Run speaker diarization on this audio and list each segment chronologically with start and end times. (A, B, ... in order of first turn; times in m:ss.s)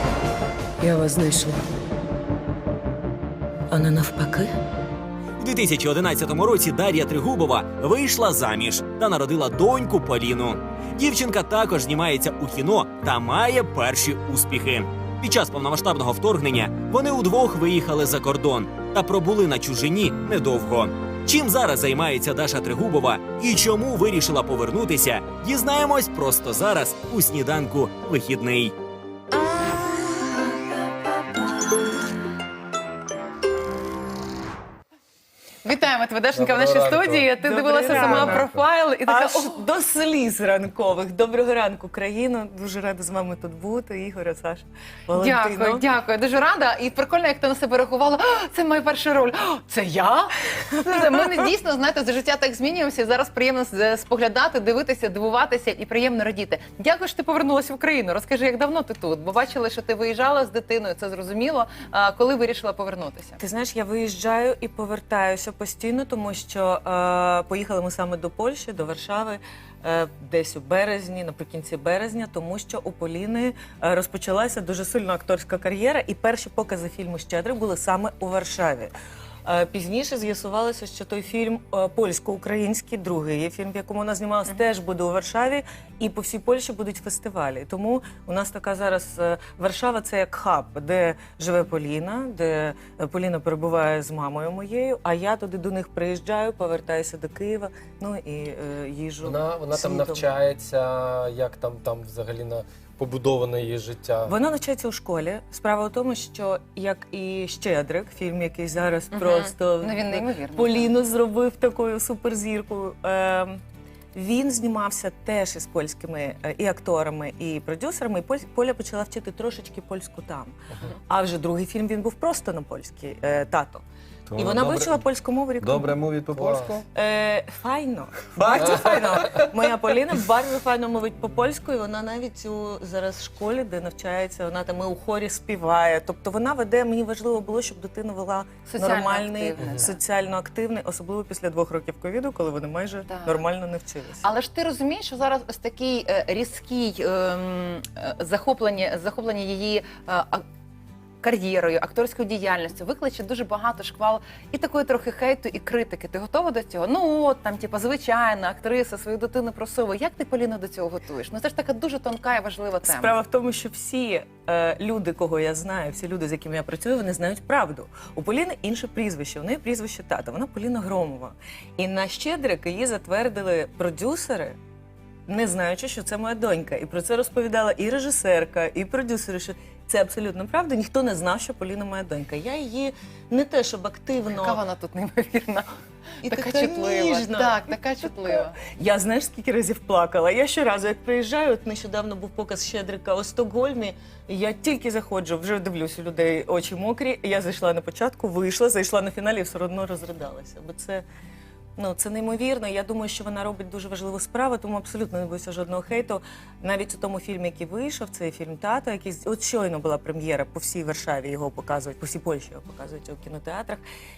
0:00.8-0:01.8 A
0:03.7-0:04.5 A
0:05.4-0:28.7 B
0:35.6-0:39.6 C
0:36.3-0:37.3 D
0:37.3-0:38.5 A
0:39.0-0:45.8 A
0:45.2-1:03.4 C
0:50.8-0:51.4 A
1:03.4-1:18.9 A
1:19.4-1:40.3 A
1:39.2-1:44.3 D
1:44.2-1:53.6 A
1:49.1-1:50.9 C
1:54.1-2:03.8 A
2:04.3-2:05.0 E
2:04.3-2:06.0 A
2:05.6-2:06.8 E
2:06.3-2:06.7 D
2:06.8-2:24.3 A
2:08.4-2:09.2 E
2:08.6-2:09.0 D
2:18.6-2:20.0 C
2:23.0-2:23.5 C
2:24.2-2:30.4 C
2:31.2-2:43.1 C
2:42.8-2:54.6 A
2:55.3-3:04.6 A
3:04.3-3:05.7 C
3:06.2-3:21.0 A
3:06.2-3:08.6 C
3:21.8-3:33.8 A